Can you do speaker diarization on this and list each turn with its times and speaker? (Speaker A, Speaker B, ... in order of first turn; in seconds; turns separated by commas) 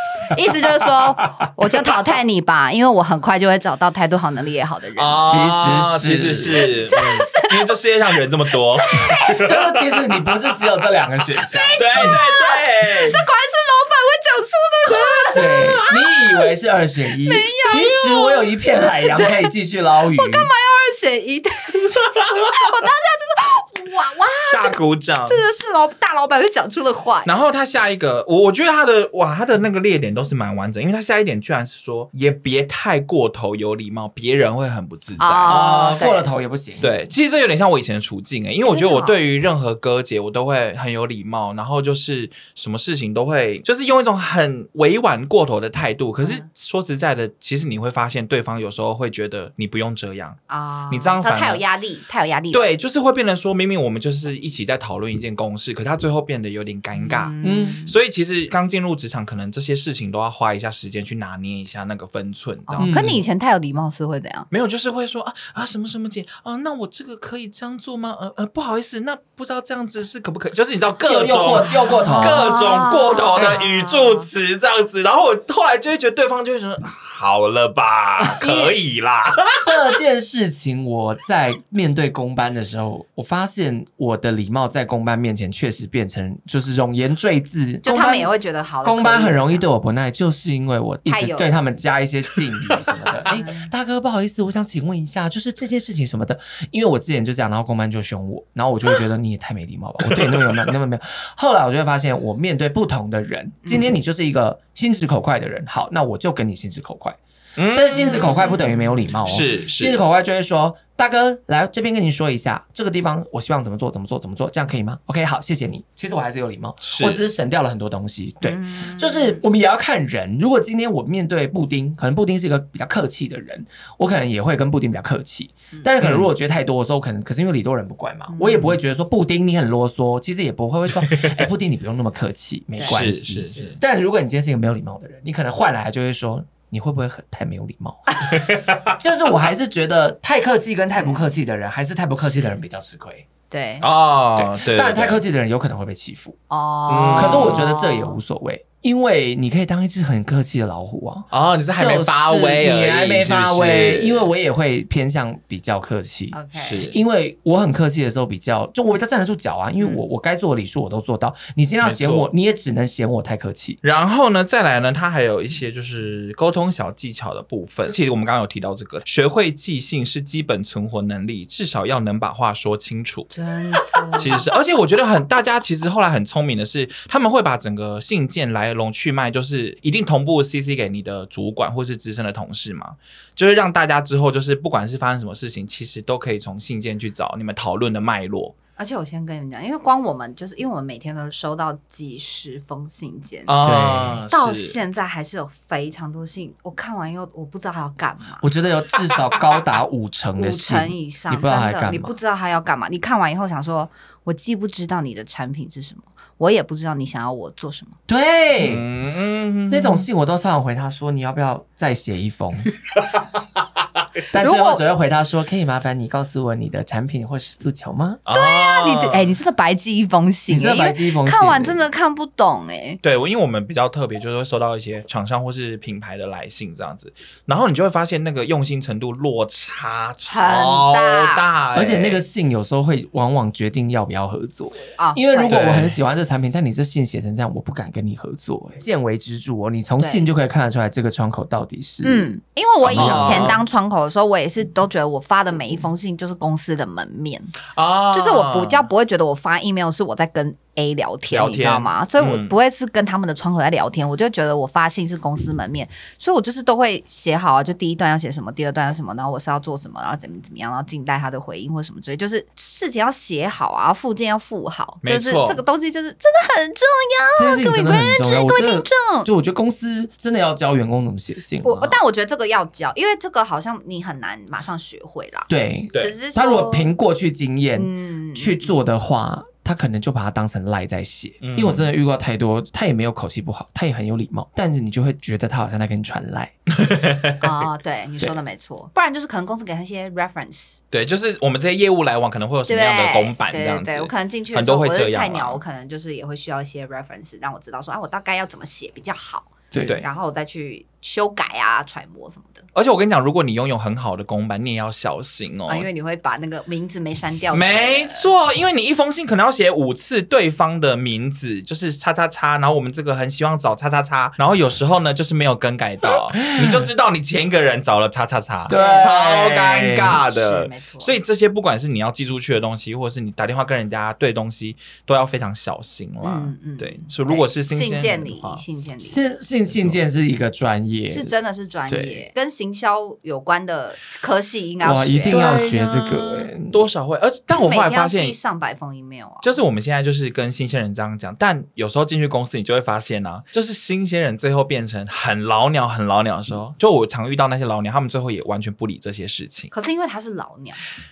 Speaker A: 0.3-5.6, Speaker B: 5.0-9.9, Speaker C: 5.3-6.7, Speaker A: 6.5-7.8, Speaker A: 8.6-9.6, Speaker C: 9.3-12.2, Speaker A: 11.4-15.9, Speaker B: 11.8-13.2, Speaker B: 14.9-15.9, Speaker C: 15.3-20.5, Speaker A: 17.2-19.5, Speaker A: 20.1-27.3, Speaker B: 24.5-25.4, Speaker B: 27.2-35.9, Speaker A: 35.2-36.3, Speaker C: 35.5-37.0, Speaker B: 36.8-51.6, Speaker A: 38.6-39.2, Speaker A: 46.2-46.5, Speaker A: 50.5-52.7, Speaker B: 52.5-63.2, Speaker A: 57.0-58.0, Speaker C: 57.4-57.8, Speaker A: 62.7-64.5, Speaker C: 62.8-63.2, Speaker B: 64.5-79.8, Speaker C: 71.1-72.5, Speaker A: 71.7-74.3, Speaker C: 78.2-78.7, Speaker C: 79.5-88.3, Speaker A: 87.8-89.7, Speaker C: 88.8-107.2, Speaker A: 91.1-91.5, Speaker A: 93.3-93.7, Speaker B: 100.0-100.8, Speaker A: 103.6-104.0, Speaker B: 107.6-108.6, Speaker C: 107.7-138.2, Speaker A: 108.0-108.9, Speaker B: 109.3-110.0, Speaker B: 116.8-117.2, Speaker A: 118.4-119.4, Speaker B: 126.0-126.3, Speaker A: 128.3-128.8, Speaker B: 131.1-131.4, Speaker A: 132.8-133.8, Speaker B: 132.9-133.8, Speaker B: 138.3-139.0, Speaker C: 139.0-143.3, Speaker A: 141.0-141.3, Speaker A: 142.2-142.6, Speaker A: 143.5-143.9, Speaker B: 143.8-145.2, Speaker C: 144.4-146.4, Speaker A: 146.5-148.2, Speaker B: 146.9-147.6, Speaker C: 147.2-163.8, Speaker B: 151.3-154.3, Speaker A: 156.3-156.9, Speaker B: 156.6-157.0, Speaker B: 161.8-162.3, Speaker B: 163.8-173.3, Speaker A: 173.3-174.4, Speaker B: 174.2-188.6, Speaker A: 188.8-193.6, Speaker B: 193.5-194.8, Speaker C: 193.6-194.2, Speaker A: 194.3-198.4, Speaker C: 198.4-202.1, Speaker A: 200.4-208.0, Speaker C: 208.1-208.8, Speaker B: 208.6-210.1, Speaker C: 209.7-212.7, Speaker C: 214.3-218.2, Speaker A: 214.4-214.8, Speaker B: 218.3-219.3, Speaker A: 218.3-223.0, Speaker C: 220.5-221.8, Speaker B: 223.0-232.2, Speaker A: 230.3-231.4, Speaker C: 231.7-243.6, Speaker A: 235.0-235.6, Speaker B: 235.5-236.0, Speaker A: 240.0-240.3, Speaker A: 242.0-247.6, Speaker B: 242.8-243.6, Speaker B: 247.7-248.9, Speaker A: 248.1-269.3, Speaker B: 251.3-252.5, Speaker B: 265.0-265.6, Speaker C: 267.4-272.0, Speaker A: 271.6-276.9, Speaker C: 275.5-286.5, Speaker A: 277.8-278.7, Speaker B: 281.4-281.9, Speaker B: 286.7-287.5, Speaker A: 287.4-290.8, Speaker B: 290.9-295.6, Speaker A: 292.7-302.7, Speaker C: 299.7-300.0, Speaker B: 302.7-305.9, Speaker A: 305.7-308.3, Speaker B: 307.5-328.6, Speaker C: 316.3-316.9, Speaker C: 318.7-320.2, Speaker A: 318.7-319.2, Speaker A: 320.3-321.2, Speaker A: 326.2-329.2, Speaker C: 329.0-331.3, Speaker B: 329.7-330.0, Speaker A: 331.1-335.7, Speaker C: 331.9-332.3, Speaker C: 334.8-336.9, Speaker B: 335.3-338.4, Speaker A: 337.5-339.6, Speaker B: 339.4-349.7, Speaker A: 349.7-350.8